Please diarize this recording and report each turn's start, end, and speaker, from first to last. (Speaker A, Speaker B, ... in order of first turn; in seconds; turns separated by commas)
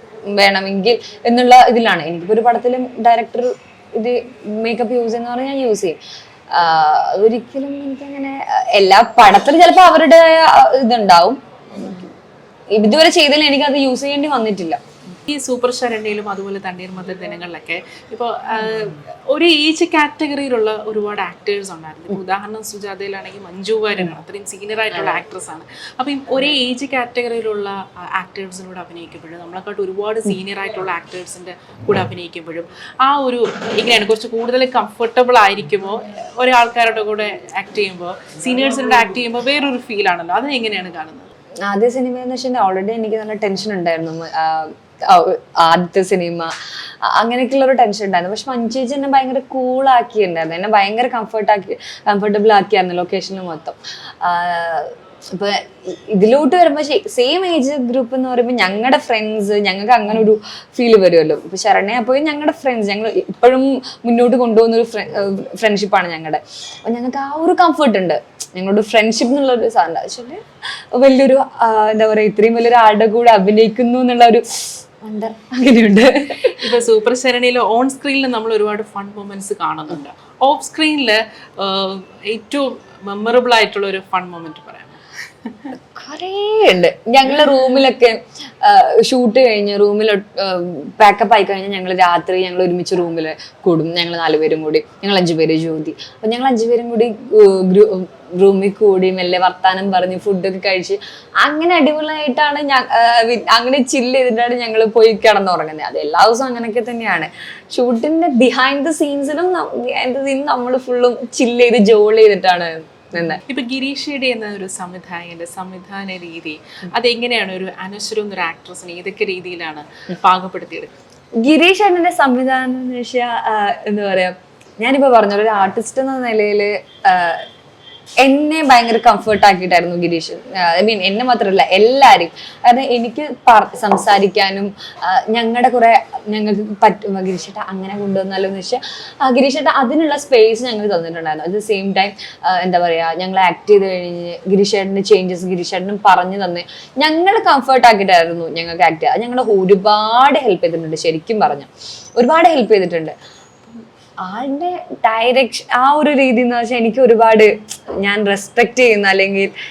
Speaker A: 0.2-6.0, Speaker A: 6.5-12.1, Speaker A: 12.7-14.8, Speaker B: 15.2-41.3, Speaker A: 41.6-76.6, Speaker B: 76.5-85.7, Speaker A: 85.9-113.4, Speaker B: 113.4-120.9, Speaker A: 121.4-127.5, Speaker A: 128.2-153.2, Speaker A: 153.7-159.5